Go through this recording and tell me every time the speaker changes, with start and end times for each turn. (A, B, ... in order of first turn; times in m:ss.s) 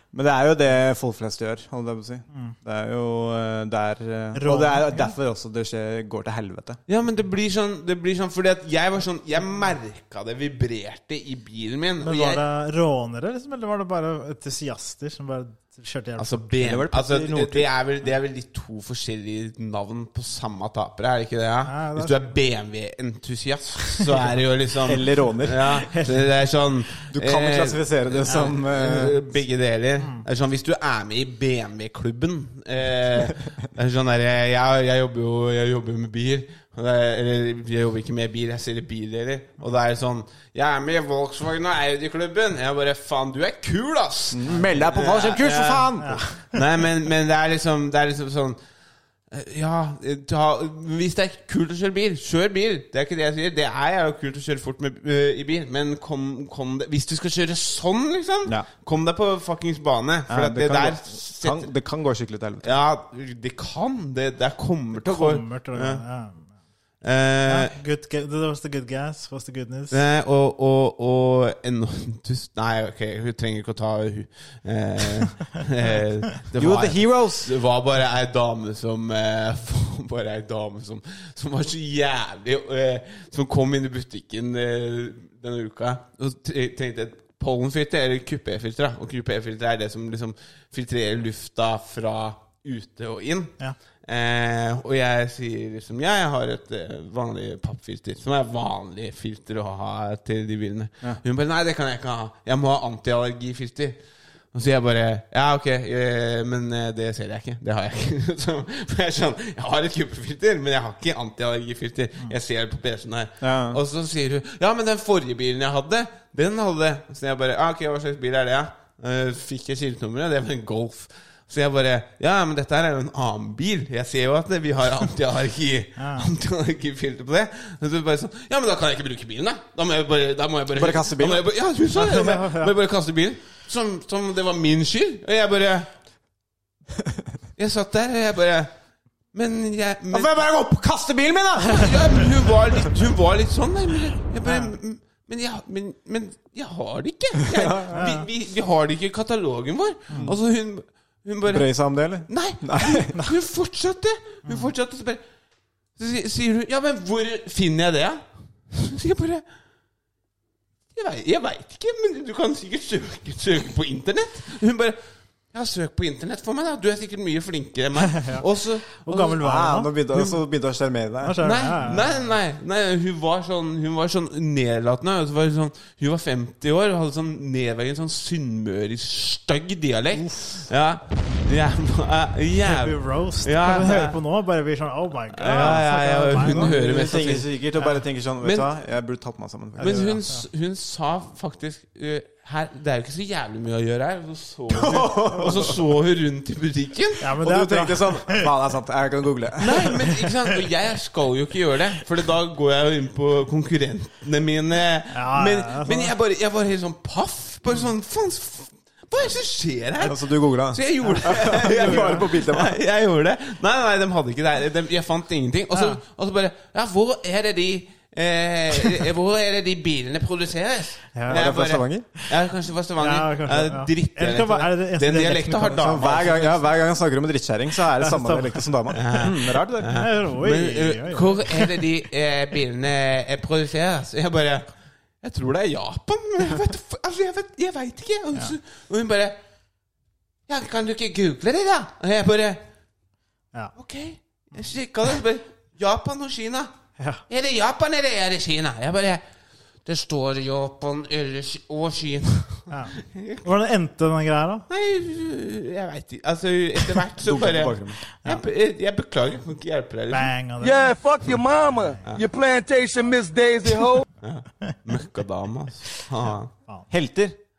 0:00.1-0:06.8 A
0:04.4-0:05.1 B
0:06.9-0:12.4 C
0:12.0-0:16.5 B
0:16.2-0:45.9 C
0:16.6-0:17.7 A
0:21.7-0:22.3 B
0:24.9-0:25.7 A
0:25.9-0:26.2 B
0:27.1-0:29.2 A
0:30.0-0:30.3 B
0:44.3-0:46.2 A
0:46.0-0:46.6 B
0:46.5-0:48.6 C
0:49.3-1:01.7 C
1:00.3-1:02.8 A
1:02.6-1:06.0 C
1:05.0-1:06.5 B
1:07.0-1:07.7 C
1:07.5-1:10.0 B
1:09.9-1:44.0 C
1:16.6-1:17.5 A
1:44.5-2:15.9 C
1:53.4-1:53.8 A
2:06.0-2:06.3 B
2:10.7-2:11.4 A
2:12.0-2:12.7 B
2:17.6-2:18.7 C
2:19.3-2:20.5 C
2:20.1-2:22.2 A
2:21.7-2:31.7 C
2:24.5-2:24.7 B
2:27.4-2:28.0 A
2:27.9-2:28.2 B
2:31.4-2:33.1 A
2:32.3-2:35.2 C
2:36.0-2:39.4 C
2:41.0-2:45.0 C
2:45.5-2:49.3 C
2:48.2-2:48.4 B
2:49.0-2:49.9 B
2:49.2-2:51.5 A
2:51.2-2:52.0 B
2:51.4-3:04.2 C
3:02.6-3:06.7 B
3:05.4-3:07.5 C
3:05.5-3:05.8 A
3:06.4-3:10.2 A
3:08.4-3:08.7 C
3:09.8-3:10.4 B
3:09.8-3:17.2 C
3:14.7-3:15.8 A
3:17.2-3:18.5 B
3:17.4-3:19.9 A
3:19.6-3:46.6 C
3:25.1-3:26.1 B
3:30.0-3:32.8 A
3:31.8-3:32.1 B
3:35.7-3:36.0 B
3:41.2-3:41.4 B
3:41.3-3:42.1 A
3:43.0-3:45.9 B
3:45.6-3:49.9 A
3:48.0-3:49.2 B
3:49.0-3:54.7 C
3:49.9-3:51.8 B
3:55.2-3:59.4 C
4:00.5-4:02.6 C
4:03.8-4:06.7 C
4:07.3-4:09.2 C
4:09.8-4:13.4 C
4:12.7-4:14.7 B
4:14.7-4:20.3 C
4:17.2-4:18.0 A
4:20.1-4:20.8 B
4:20.6-4:24.1 D
4:24.2-4:26.5 C
4:26.9-4:27.4 A